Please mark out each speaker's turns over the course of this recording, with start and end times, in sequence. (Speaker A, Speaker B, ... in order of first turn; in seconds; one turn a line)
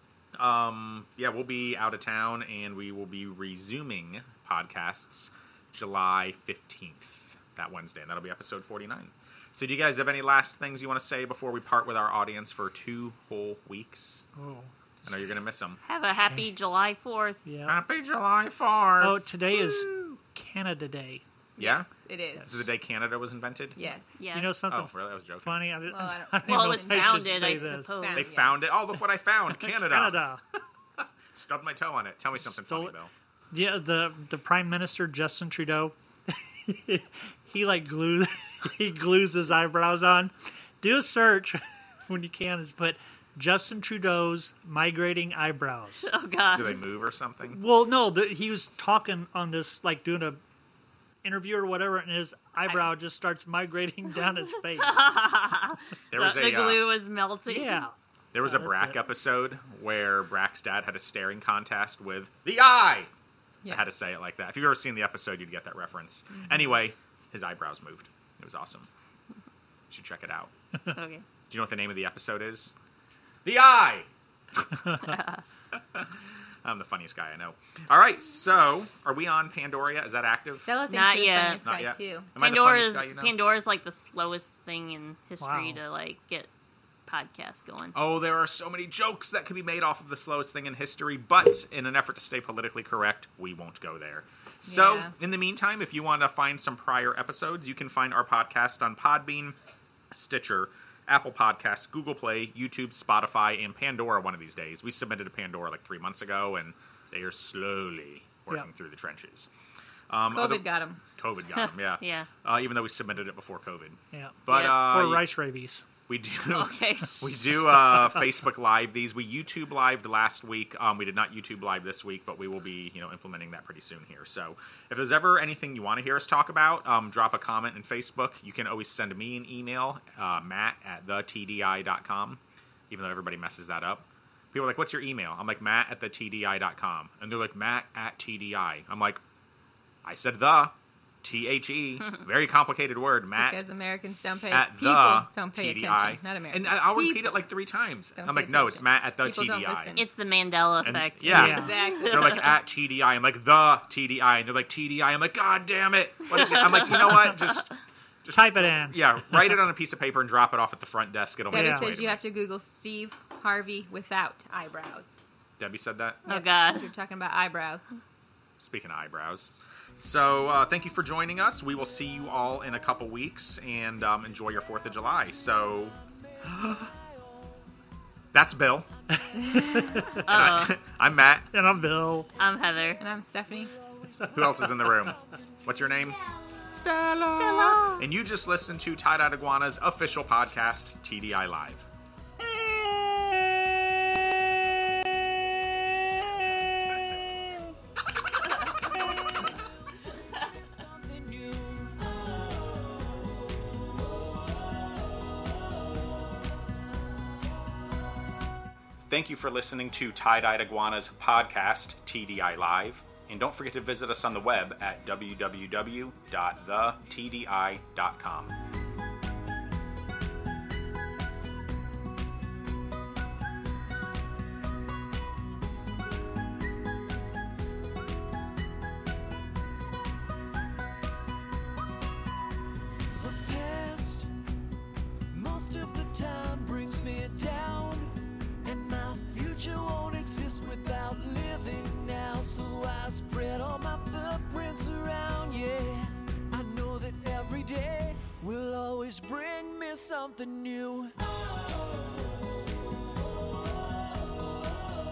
Speaker A: 0.3-14.2
Speaker B: 14.3-15.3
Speaker A: 15.1-15.8
Speaker C: 15.8-17.4
Speaker B: 17.4-17.8
Speaker A: 17.6-20.2
Speaker B: 19.0-21.2
Speaker A: 21.6-21.9
Speaker D: 21.6-22.7
Speaker A: 22.4-23.8
Speaker D: 23.8-24.2
Speaker C: 24.2-24.6
Speaker B: 24.3-27.9
Speaker A: 24.7-25.8
Speaker D: 25.9-28.6
Speaker C: 26.4-28.3
Speaker A: 28.1-30.2
Speaker B: 29.5-30.4
Speaker A: 31.0-33.1
Speaker B: 32.4-33.0
Speaker B: 33.5-46.1
Speaker C: 46.0-46.8
Speaker A: 46.5-47.6
Speaker B: 47.5-50.4
Speaker B: 51.2-55.1
Speaker C: 54.8-57.8
Speaker A: 56.1-56.8
Speaker B: 57.5-59.0
Speaker A: 58.3-63.1
Speaker A: 63.7-68.9
Speaker A: 69.9-70.5
Speaker C: 70.9-71.2
Speaker A: 71.5-72.7
Speaker A: 73.4-74.1
Speaker C: 75.0-75.4
Speaker A: 75.7-76.1
Speaker A: 76.6-80.7
Speaker D: 80.6-82.3
Speaker C: 80.9-81.6
Speaker A: 81.6-83.3
Speaker C: 82.4-86.5
Speaker B: 85.4-85.8
Speaker C: 87.1-87.9
Speaker A: 87.9-99.6
Speaker D: 94.7-95.1
Speaker A: 100.1-109.5
Speaker A: 110.1-115.2
Speaker D: 110.3-111.0
Speaker C: 111.5-112.3
Speaker B: 114.1-115.8
Speaker C: 114.5-114.8
Speaker A: 116.1-139.2
Speaker C: 116.5-117.6
Speaker A: 140.0-143.6
Speaker D: 143.3-147.4
Speaker A: 144.5-150.0
Speaker D: 148.2-150.1
Speaker C: 149.9-152.5
Speaker A: 150.8-157.7
Speaker D: 151.2-152.5
Speaker B: 151.3-151.8
Speaker C: 156.3-157.6
Speaker A: 158.2-162.2
Speaker B: 158.3-159.6
Speaker B: 161.5-161.9
Speaker D: 161.5-165.2
Speaker A: 165.6-166.2
Speaker C: 166.2-166.9
Speaker D: 166.2-167.9
Speaker A: 168.6-176.9
Speaker E: 176.0-177.6
Speaker A: 178.3-178.9
Speaker B: 179.2-180.3
Speaker D: 179.4-179.8
Speaker A: 180.1-181.5
Speaker C: 180.2-180.8
Speaker B: 181.5-182.3
Speaker C: 182.4-183.0
Speaker D: 183.0-183.7
Speaker E: 183.5-185.4
Speaker A: 184.3-191.8
Speaker C: 187.5-188.0
Speaker E: 200.0-202.4
Speaker A: 209.1-218.5
Speaker E: 233.1-234.3
Speaker E: 235.3-251.2